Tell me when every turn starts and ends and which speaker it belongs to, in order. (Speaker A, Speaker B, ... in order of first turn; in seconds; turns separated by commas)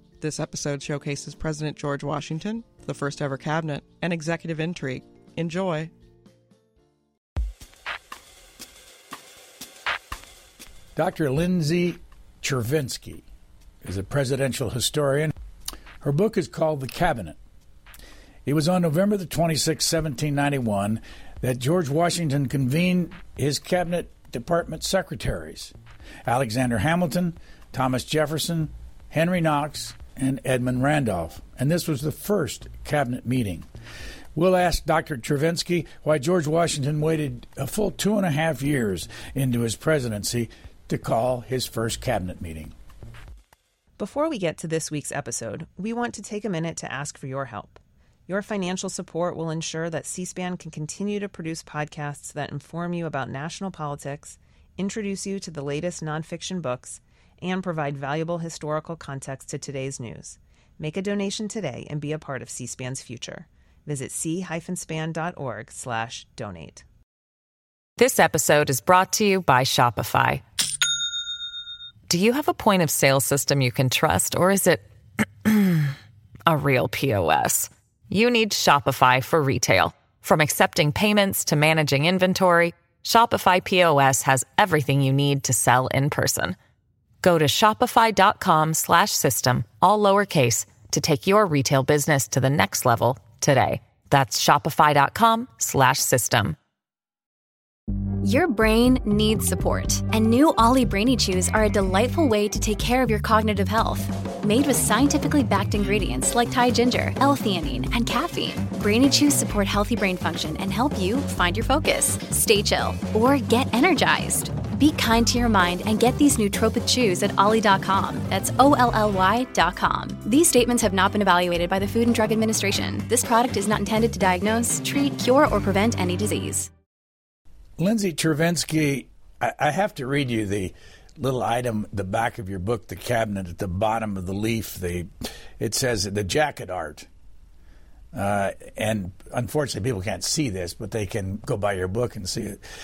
Speaker A: 0.2-5.9, Speaker B: 10.9-13.2, Speaker B: 13.8-15.3, Speaker B: 16.0-17.4, Speaker B: 18.4-33.6, Speaker B: 34.3-42.7, Speaker C: 44.0-66.8, Speaker D: 68.0-70.4, Speaker D: 72.1-74.8, Speaker D: 75.4-75.9, Speaker D: 76.5-86.5, Speaker D: 87.2-96.5, Speaker E: 98.2-126.7, Speaker B: 127.8-137.1, Speaker B: 138.1-142.6